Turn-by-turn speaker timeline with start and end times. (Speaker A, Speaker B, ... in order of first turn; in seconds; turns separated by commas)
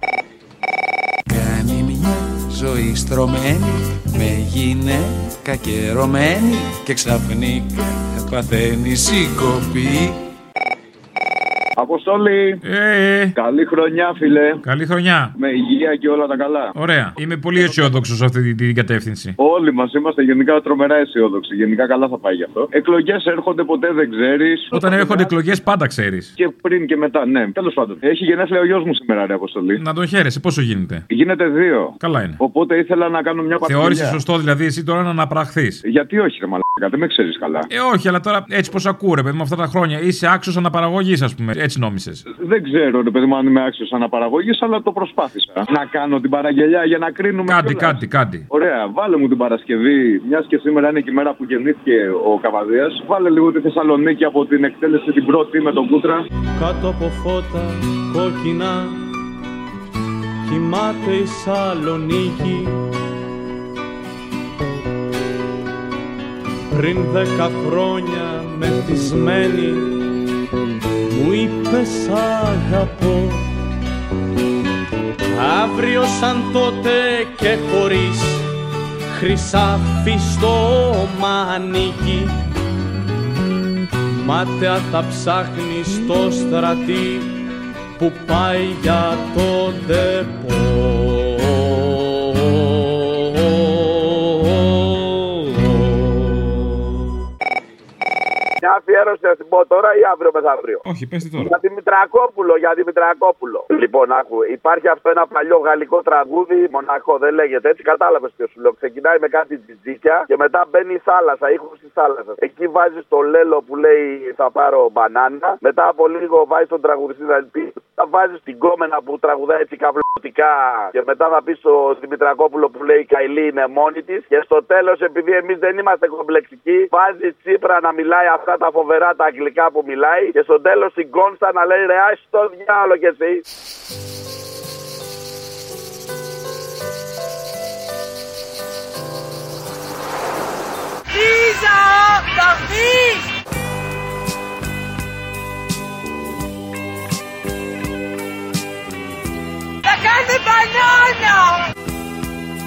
Speaker A: 1.3-10.2, Speaker B: 11.8-12.6, Speaker C: 12.6-13.4, Speaker B: 13.4-14.6, Speaker C: 14.6-15.3, Speaker B: 15.4-16.7, Speaker C: 16.8-19.4, Speaker B: 17.6-17.9, Speaker B: 19.4-25.3, Speaker C: 24.7-26.3, Speaker B: 26.4-29.8, Speaker C: 29.8-31.0, Speaker B: 31.1-34.2, Speaker C: 32.0-32.4, Speaker C: 33.6-35.8, Speaker B: 35.8-37.7, Speaker C: 37.7-42.2, Speaker B: 42.4-56.2, Speaker C: 47.5-48.4, Speaker D: 56.6-59.0, Speaker D: 60.5-62.8, Speaker D: 66.7-70.0, Speaker D: 71.1-73.4, Speaker D: 75.3-78.5, Speaker D: 79.1-82.4, Speaker D: 84.1-87.4, Speaker D: 88.0-91.4, Speaker E: 98.6-100.8, Speaker C: 100.8-101.5, Speaker E: 101.3-133.4, Speaker F: 141.3-143.1, Speaker F: 150.2-151.1